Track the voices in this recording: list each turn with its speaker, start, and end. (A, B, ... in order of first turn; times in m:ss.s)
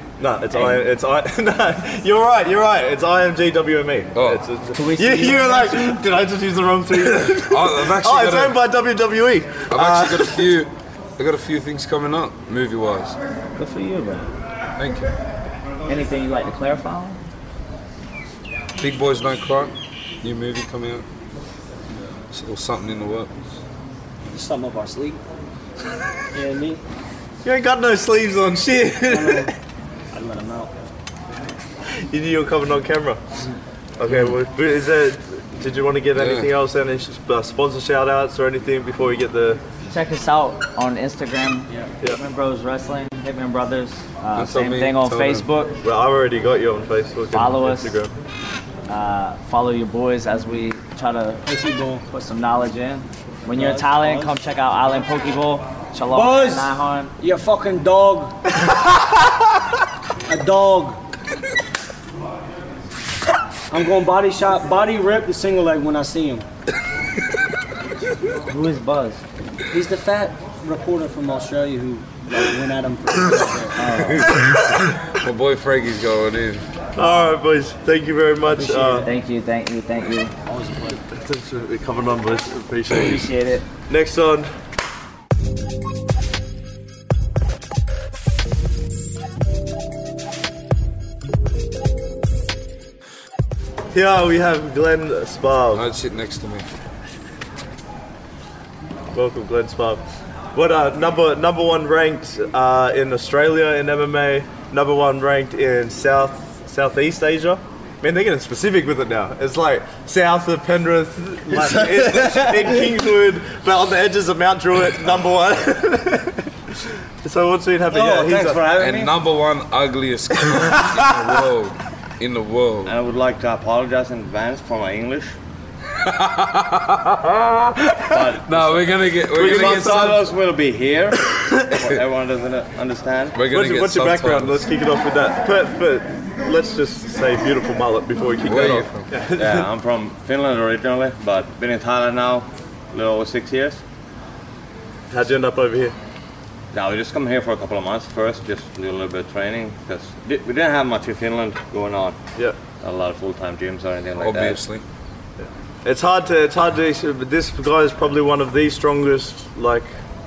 0:00.2-0:10.5 A
0:00.5-0:00.8 B
0:04.1-0:04.4 C
0:04.7-0:06.0 B
0:07.1-0:08.6 C
0:09.7-0:13.2 C
0:13.6-0:14.3 B
0:14.8-0:15.1 C
0:15.9-0:17.2 B
0:18.8-0:21.0 C
0:22.3-0:23.3 C
0:24.3-0:25.2 D
0:26.3-0:26.8 D
0:27.4-0:29.5 A
0:29.1-0:29.5 D
0:30.1-0:30.7 D
0:32.0-0:33.2 A
0:34.0-0:39.6 A
0:34.1-0:34.3 C
0:36.1-0:36.5 C
0:39.9-0:45.8 B
0:44.3-0:45.4 C
0:45.8-0:48.1 A
0:47.3-0:48.0 B
0:48.9-0:51.4 B
0:51.4-0:52.0 D
0:52.1-0:57.1 B
0:53.5-0:54.3 D
0:56.1-0:58.5 D
1:00.3-1:01.0 D
1:03.7-1:06.4 D
1:08.4-1:09.2 B
1:09.7-1:13.8 D
1:13.8-1:14.4 B
1:14.0-1:16.6 C
1:17.0-1:19.0 A
1:18.5-1:19.1 D
1:19.0-1:20.3 B
1:20.4-1:21.0 D
1:21.1-1:23.3 A
1:22.9-1:23.6 B
1:23.9-1:24.5 A
1:33.9-1:35.8 A
1:35.7-1:36.6 C
1:39.1-1:40.0 A
1:40.5-1:56.5 A
1:51.5-1:52.8 E
1:57.2-1:58.6 A
1:57.9-1:59.1 E
1:58.8-2:02.9 C
2:02.8-2:05.4 E
2:05.9-2:10.3 C
2:08.1-2:13.4 E
2:09.3-2:10.1 A
2:13.3-2:14.6 C
2:13.4-2:19.7 A
2:18.4-2:19.1 C
2:19.4-2:23.8 E
2:25.1-2:25.9 A
2:26.7-2:32.2 E
2:32.8-2:34.6 E
2:34.2-2:34.8 C
2:35.8-2:39.9 A